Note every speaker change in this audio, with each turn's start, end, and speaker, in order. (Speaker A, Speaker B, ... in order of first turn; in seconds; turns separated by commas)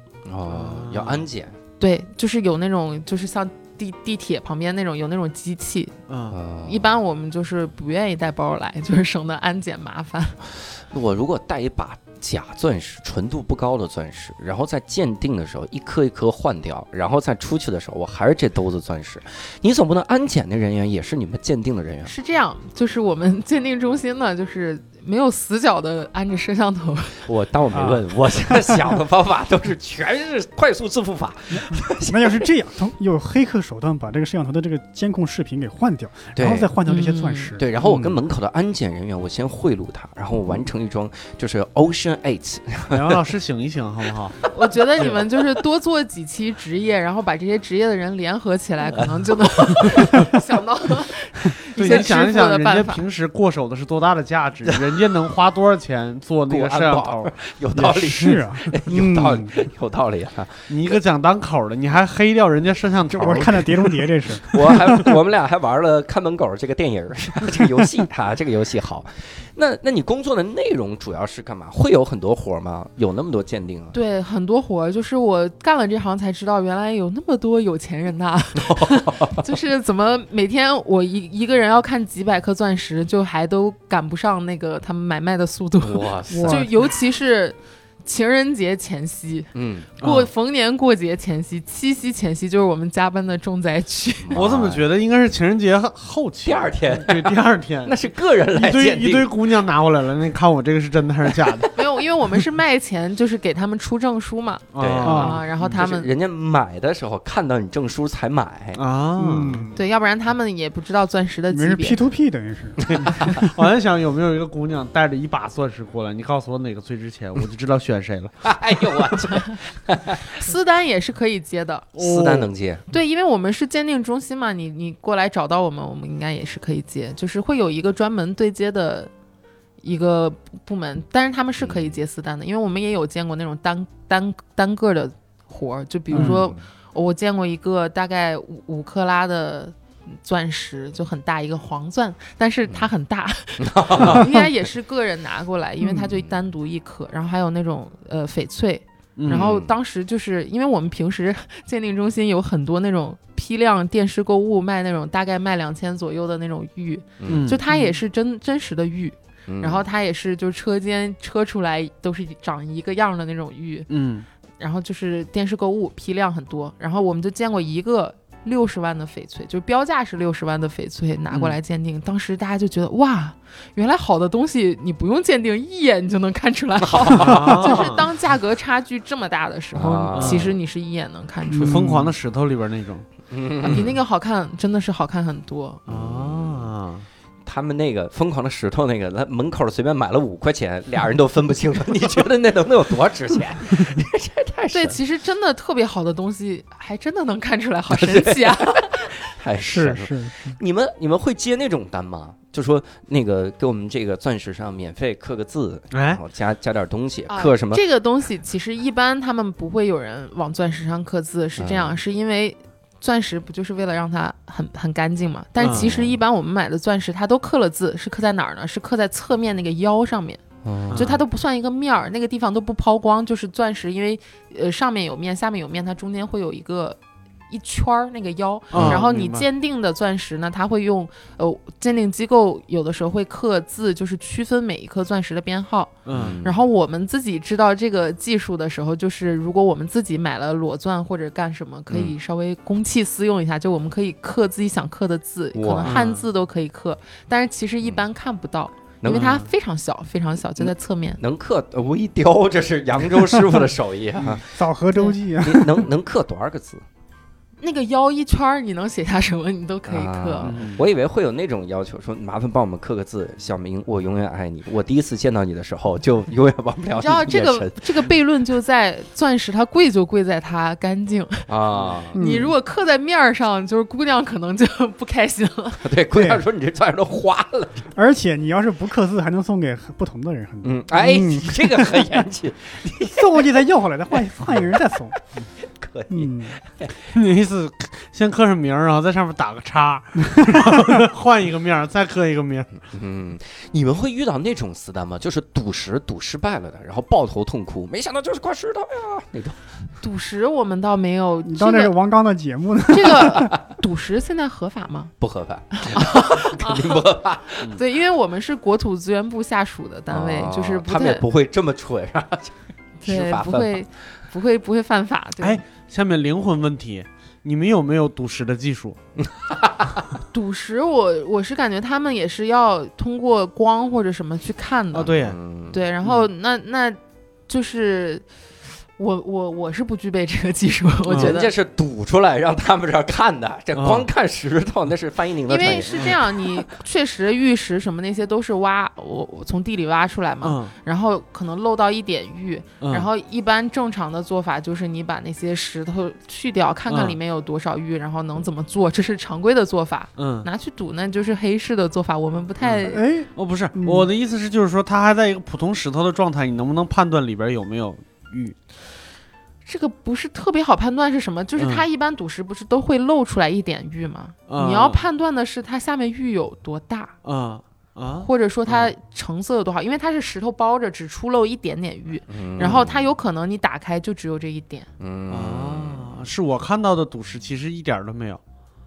Speaker A: 0.2-1.6, Speaker B: 0.5-1.3, Speaker C: 1.8-5.9, Speaker B: 6.1-6.4, Speaker A: 6.3-6.9, Speaker C: 6.6-10.4, Speaker A: 10.9-22.1, Speaker C: 22.0-27.3, Speaker A: 27.3-32.5, Speaker D: 27.7-29.0, Speaker D: 31.6-38.2, Speaker A: 36.4-36.8, Speaker C: 36.9-37.6, Speaker A: 37.6-43.2, Speaker B: 42.9-44.4, Speaker C: 44.5-53.0, Speaker A: 48.9-50.2, Speaker B: 51.8-57.3, Speaker A: 56.5-60.7, Speaker D: 57.7-59.5, Speaker B: 60.7-64.0, Speaker D: 63.1-65.1, Speaker A: 64.5-74.0, Speaker C: 73.9-94.4, Speaker A: 78.6-79.4, Speaker A: 85.8-86.7, Speaker D: 86.3-86.7, Speaker A: 89.5-89.9, Speaker B: 90.0-90.3, Speaker A: 94.3-94.9, Speaker B: 94.3-98.0, Speaker A: 96.4-99.4, Speaker B: 98.5-101.7, Speaker C: 101.8-106.1, Speaker B: 104.7-105.8, Speaker A: 104.8-108.8, Speaker D: 105.0-105.4, Speaker B: 108.7-109.7, Speaker D: 109.2-109.8, Speaker C: 109.7-112.0, Speaker D: 111.5-113.5, Speaker A: 112.8-113.4, Speaker B: 112.9-118.4, Speaker A: 118.4-120.4, Speaker C: 120.3-122.0, Speaker B: 122.0-122.5, Speaker A: 122.0-122.9, Speaker C: 122.9-129.1, Speaker C: 129.8-163.9, Speaker A: 131.6-132.0, Speaker D: 136.1-136.4, Speaker A: 136.2-136.6, Speaker A: 143.6-144.3, Speaker D: 145.8-146.1, Speaker B: 149.2-149.5, Speaker A: 149.3-149.7, Speaker A: 157.2-157.5, Speaker B: 157.3-158.0, Speaker A: 159.5-159.8, Speaker B: 163.9-164.3, Speaker C: 164.6-181.9, Speaker B: 171.3-171.6, Speaker A: 176.8-177.4, Speaker B: 177.1-178.1, Speaker A: 179.7-180.5, Speaker B: 180.1-180.6, Speaker D: 181.5-182.1, Speaker B: 181.5-183.1, Speaker A: 183.3-183.9, Speaker C: 183.6-185.8, Speaker B: 183.6-183.9, Speaker A: 185.9-186.7, Speaker B: 185.9-187.1, Speaker A: 187.4-195.0, Speaker C: 194.7-199.1, Speaker A: 197.9-207.8, Speaker D: 199.6-200.6, Speaker B: 205.9-206.2, Speaker C: 207.3-227.0, Speaker A: 211.6-212.0, Speaker B: 215.6-215.9, Speaker A: 215.7-216.2, Speaker A: 220.6-221.2, Speaker B: 220.9-221.2, Speaker C: 227.5-251.2, Speaker B: 228.7-229.5, Speaker B: 236.1-236.4, Speaker A: 236.1-236.6, Speaker A: 241.9-242.1, Speaker A: 245.5-246.0, Speaker B: 245.8-246.2, Speaker A: 249.0-249.4, Speaker B: 249.1-249.5, Speaker A: 250.6-254.6, Speaker D: 254.5-255.9, Speaker A: 255.4-256.8, Speaker C: 257.6-260.5, Speaker A: 259.9-267.9, Speaker B: 260.4-260.9, Speaker C: 267.0-271.5, Speaker A: 271.5-272.2, Speaker D: 272.1-272.5, Speaker C: 272.1-275.8, Speaker A: 275.8-277.9, Speaker D: 276.1-276.4, Speaker D: 277.9-282.2, Speaker A: 280.6-283.6, Speaker D: 283.0-285.4, Speaker A: 284.5-284.7, Speaker A: 285.7-286.9, Speaker D: 286.1-286.6, Speaker B: 287.1-292.7, Speaker D: 290.4-290.7, Speaker A: 292.9-299.6, Speaker C: 300.0-301.9, Speaker D: 301.4-303.5, Speaker C: 302.9-305.1, Speaker A: 305.2-307.6, Speaker C: 305.7-307.1, Speaker C: 307.6-311.2, Speaker A: 310.1-313.8, Speaker C: 313.0-315.6, Speaker B: 315.4-319.0, Speaker A: 319.2-320.0, Speaker C: 320.3-325.2, Speaker B: 324.9-325.4, Speaker A: 325.2-325.8, Speaker C: 325.7-328.2, Speaker B: 326.0-326.3, Speaker C: 329.0-331.5, Speaker B: 331.1-331.4, Speaker A: 331.1-336.7, Speaker B: 333.7-334.1, Speaker C: 335.5-353.0, Speaker B: 335.7-336.2, Speaker B: 340.4-340.7, Speaker B: 342.8-343.1, Speaker B: 346.9-347.2, Speaker B: 350.2-350.5, Speaker B: 352.6-358.5, Speaker D: 352.9-354.1, Speaker C: 359.6-367.1, Speaker B: 361.6-361.9, Speaker B: 364.5-365.0, Speaker B: 367.2-368.9, Speaker C: 368.2-374.9, Speaker A: 372.3-373.1, Speaker B: 372.6-372.9, Speaker A: 375.0-376.2, Speaker B: 375.3-378.4